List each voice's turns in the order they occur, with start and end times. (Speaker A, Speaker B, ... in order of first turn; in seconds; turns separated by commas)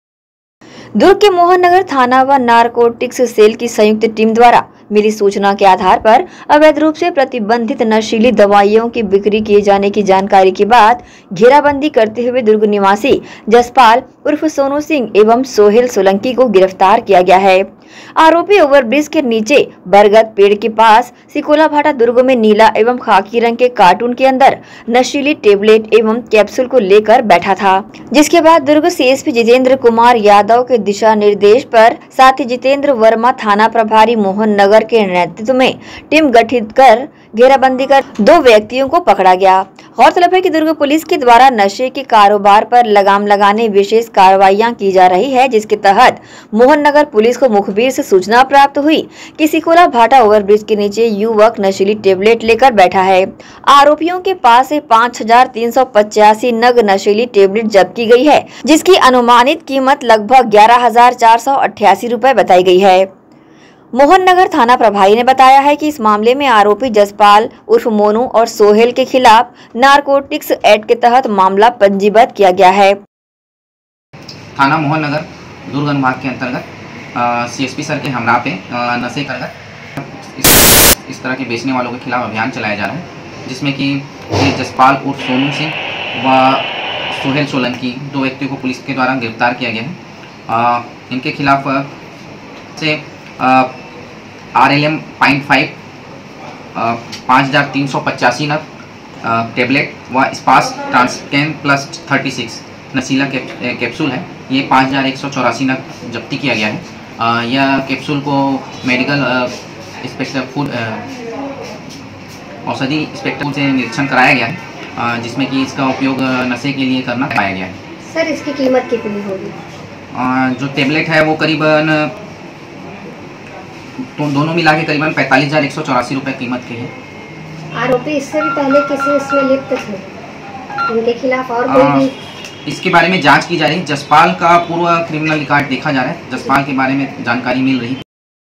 Speaker A: 1.0-17.6, Speaker A: 18.2-63.1, Speaker A: 63.9-73.0, Speaker B: 74.5-91.9, Speaker B: 92.8-93.7, Speaker B: 94.5-95.7, Speaker B: 96.7-98.6, Speaker B: 99.2-111.0, Speaker B: 112.6-117.7, Speaker C: 118.0-119.5, Speaker B: 120.1-122.1, Speaker B: 124.0-126.9, Speaker C: 127.7-130.1, Speaker C: 130.9-132.1, Speaker B: 131.6-132.1, Speaker B: 132.7-138.0